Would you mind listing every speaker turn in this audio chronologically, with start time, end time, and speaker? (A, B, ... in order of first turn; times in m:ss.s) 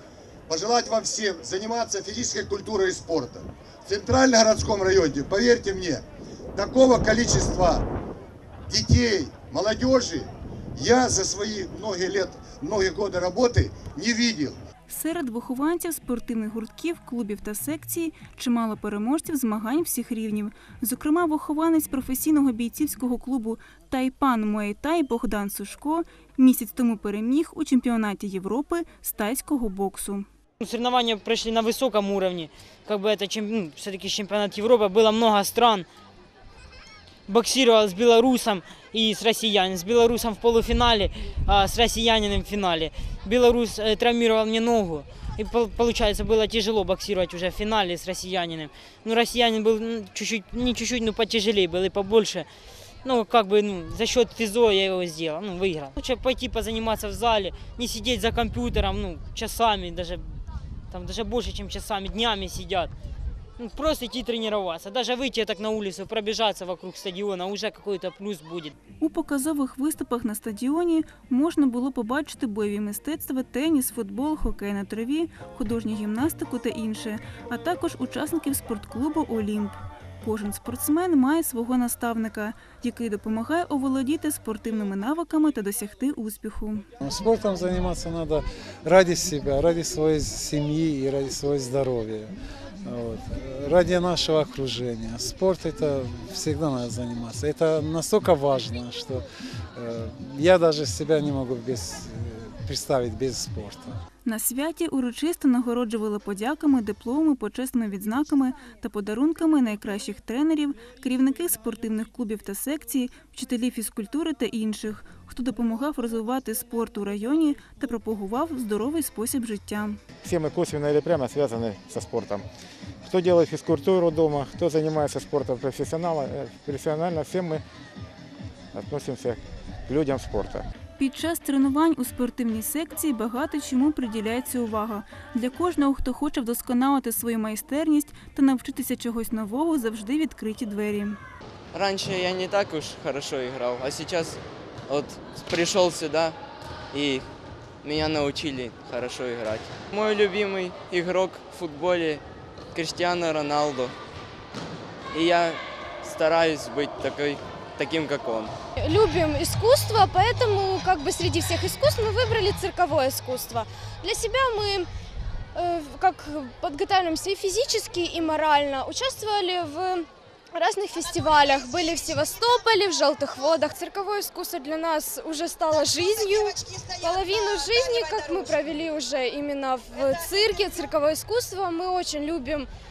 0:00.5-0:07.9 A
0:08.7-0:14.6 A
0:14.9-0:30.3 B
0:30.6-0:35.9 C
0:37.3-0:52.5 C
0:53.0-1:00.4 C
1:00.9-1:02.9 C
1:03.6-1:08.7 C
1:09.0-1:26.9 B
1:27.0-1:32.3 D
1:32.8-1:39.2 D
1:39.8-1:44.0 D
1:44.2-2:00.0 B
2:00.2-2:02.4 E
2:03.0-2:07.6 E
2:08.7-2:10.7 E
2:11.0-2:21.2 B
2:21.7-2:26.4 F
2:26.9-2:27.3 F
2:27.8-2:34.0 F
2:35.1-2:38.6 F
2:38.8-2:44.9 G
2:45.6-3:02.7 G